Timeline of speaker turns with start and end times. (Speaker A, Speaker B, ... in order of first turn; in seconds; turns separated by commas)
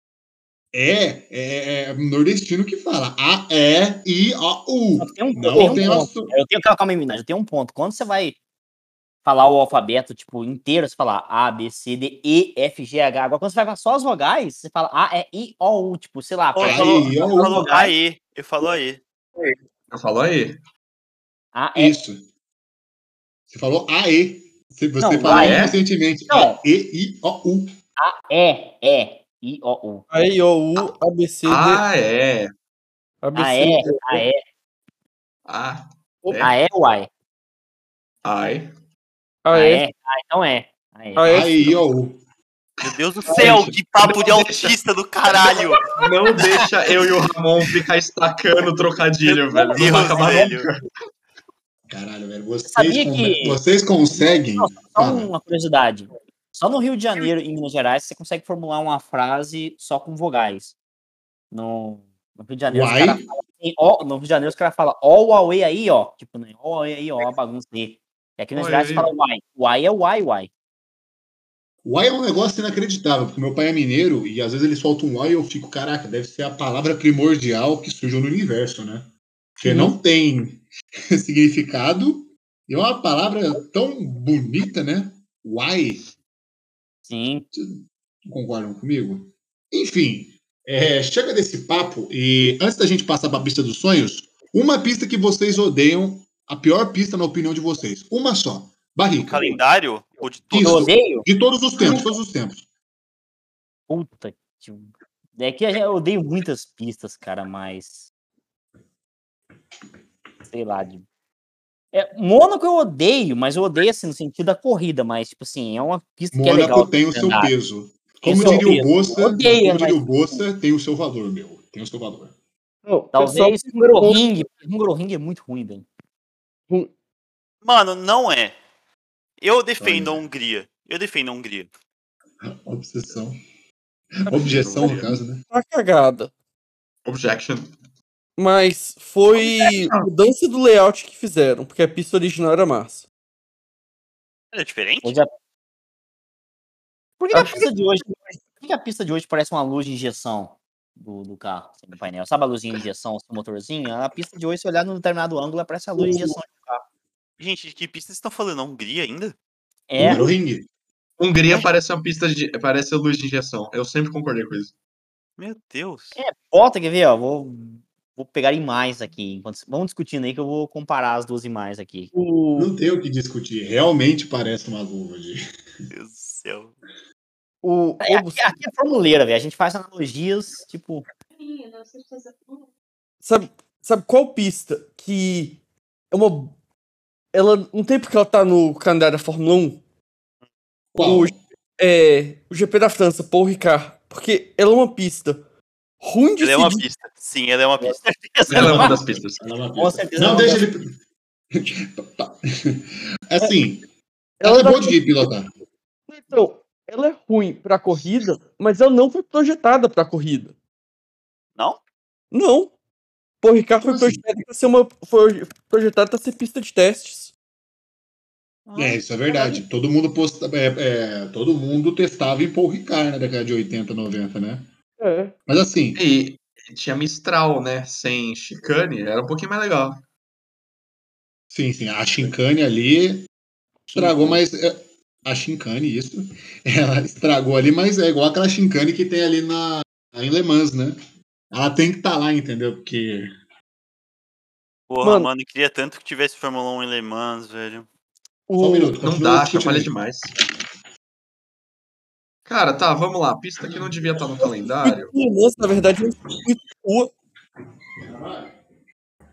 Speaker A: 0.7-6.3, Speaker B: 5.0-8.4, Speaker C: 5.5-6.1, Speaker B: 9.2-17.9, Speaker D: 16.5-19.0, Speaker A: 16.6-17.6, Speaker E: 19.9-20.6, Speaker B: 21.5-22.0, Speaker A: 21.7-22.2, Speaker A: 23.5-27.7, Speaker B: 25.0-25.8, Speaker E: 25.2-25.8, Speaker B: 26.3-26.6, Speaker B: 28.0-30.1, Speaker C: 30.1-31.8, Speaker E: 31.4-32.5, Speaker C: 33.2-34.2, Speaker B: 33.3-34.4, Speaker E: 35.5-36.5, Speaker B: 36.4-37.1, Speaker E: 38.2-38.7, Speaker C: 39.4-39.8, Speaker B: 39.5-41.4, Speaker C: 41.1-41.7, Speaker A: 41.3-42.2, Speaker E: 42.8-44.8, Speaker D: 42.8-45.9, Speaker B: 43.4-43.6, Speaker E: 45.4-50.8, Speaker D: 49.2-50.7, Speaker B: 49.7-50.4, Speaker A: 51.9-55.3, Speaker B: 52.6-53.6, Speaker B: 54.1-60.7, Speaker B: 61.5-70.5, Speaker A: 62.7-63.2, Speaker E: 68.5-69.1, Speaker A: 71.8-79.1, Speaker A: 79.6-86.0, Speaker B: 87.1-87.4, Speaker A: 87.5-99.6, Speaker D: 99.2-100.9, Speaker A: 100.5-102.6, Speaker B: 100.6-101.2, Speaker B: 103.9-108.1, Speaker B: 110.5-111.0, Speaker B: 111.9-117.5, Speaker A: 116.3-122.3, Speaker B: 118.2-120.4, Speaker C: 122.8-124.2, Speaker B: 123.1-125.8, Speaker D: 127.6-128.6, Speaker D: 129.4-131.7, Speaker A: 129.8-130.2, Speaker A: 132.4-133.3, Speaker A: 134.2-135.4, Speaker E: 134.3-135.2, Speaker C: 135.5-136.3, Speaker E: 137.0-137.7, Speaker C: 138.4-143.1, Speaker E: 139.4-140.1, Speaker D: 144.5-145.2, Speaker B: 145.0-145.3, Speaker B: 147.2-148.1, Speaker C: 147.3-148.3, Speaker B: 148.6-156.8, Speaker D: 157.4-159.3, Speaker B: 159.9-160.3, Speaker A: 160.0-160.7, Speaker E: 161.2-164.7, Speaker D: 165.4-166.2, Speaker B: 166.2-172.1, Speaker C: 172.1-172.7, Speaker A: 172.6-175.4, Speaker D: 175.9-176.7, Speaker C: 177.6-178.4, Speaker B: 178.0-181.0, Speaker C: 183.2-185.6, Speaker C: 186.1-186.5, Speaker C: 187.3-189.8, Speaker A: 190.9-191.4, Speaker C: 191.0-195.4, Speaker C: 196.0-196.9, Speaker D: 196.4-198.0, Speaker B: 197.8-199.0, Speaker E: 198.5-199.4, Speaker A: 198.6-200.9, Speaker B: 199.8-200.6, Speaker A: 201.5-203.8, Speaker C: 204.4-205.0, Speaker A: 204.4-205.5, Speaker C: 206.1-210.5, Speaker C: 212.3-212.7, Speaker C: 213.4-217.3, Speaker A: 213.8-214.2, Speaker D: 218.7-219.6, Speaker A: 218.8-224.7, Speaker C: 225.0-225.3, Speaker A: 225.5-226.0, Speaker E: 225.9-230.0, Speaker A: 231.5-233.3, Speaker C: 233.9-234.3, Speaker A: 233.9-241.0, Speaker A: 241.5-243.3, Speaker D: 244.9-247.9, Speaker C: 245.0-245.3, Speaker C: 248.5-248.9, Speaker A: 248.6-249.9, Speaker E: 249.0-250.3, Speaker E: 252.4-255.1, Speaker C: 254.8-257.1, Speaker A: 258.0-258.5